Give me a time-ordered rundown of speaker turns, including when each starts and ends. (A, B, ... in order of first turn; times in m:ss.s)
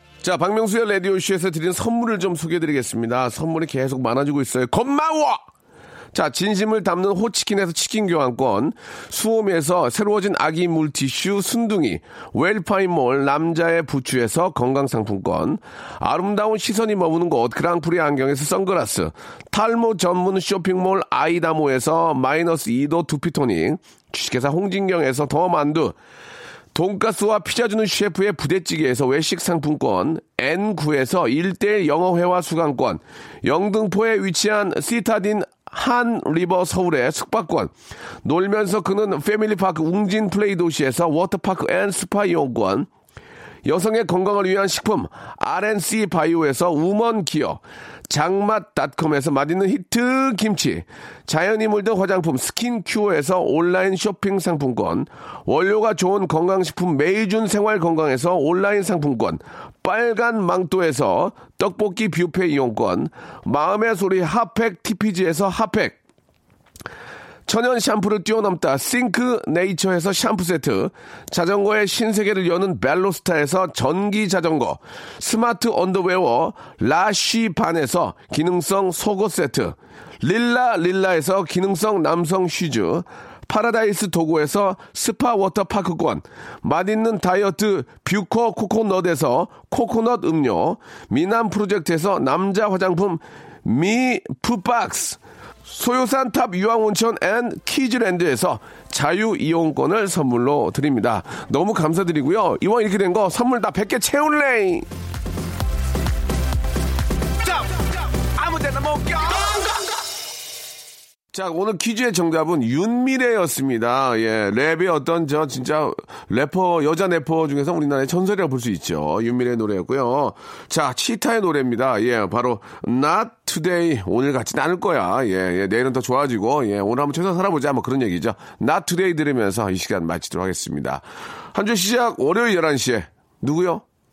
0:00.2-0:05.4 A
0:06.1-0:26.0 A
0:26.7-0:37.7 A
0:38.2-0:42.9 A
0:43.6-1:06.0 A
1:07.5-1:44.9 A
1:47.4-1:49.8 A
1:51.3-2:13.8 A